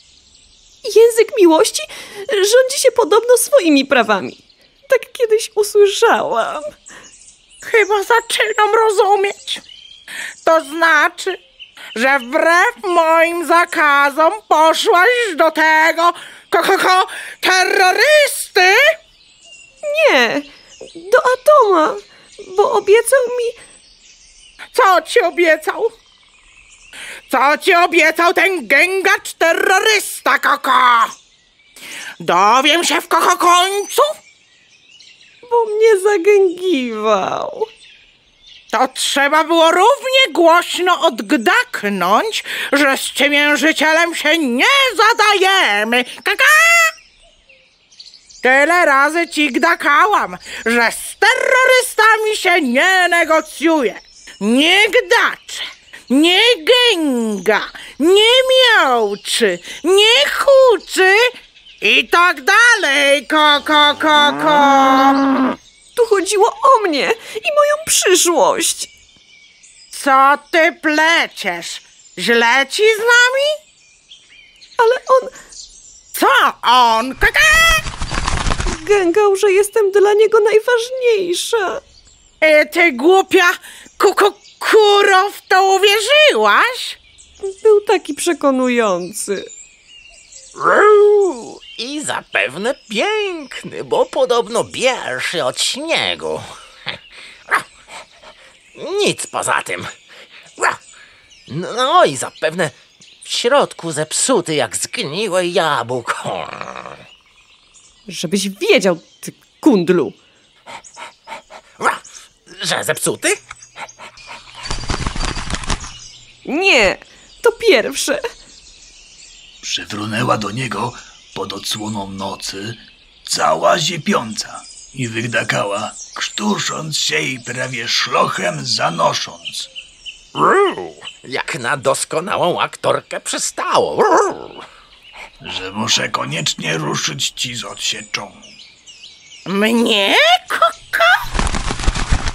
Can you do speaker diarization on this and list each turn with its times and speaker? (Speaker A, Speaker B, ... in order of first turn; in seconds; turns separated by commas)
Speaker A: 0.8-6.7, Speaker B: 7.6-9.6, Speaker B: 10.4-11.4, Speaker B: 11.9-18.8, Speaker A: 19.8-23.6, Speaker B: 24.7-25.9, Speaker B: 27.3-31.1, Speaker B: 32.2-34.1, Speaker A: 35.5-37.7, Speaker B: 38.7-46.9, Speaker B: 48.4-65.2, Speaker A: 66.0-68.9, Speaker B: 69.9-73.6, Speaker A: 74.8-75.3, Speaker B: 76.1-77.8, Speaker A: 78.7-81.8, Speaker B: 82.4-87.0, Speaker A: 87.4-89.5, Speaker C: 90.5-96.9, Speaker C: 98.7-99.9, Speaker C: 101.5-107.0, Speaker A: 108.1-110.2, Speaker C: 111.8-113.4, Speaker A: 116.4-118.2, Speaker D: 119.6-129.7, Speaker C: 130.3-134.6, Speaker D: 135.4-138.5, Speaker B: 139.5-141.2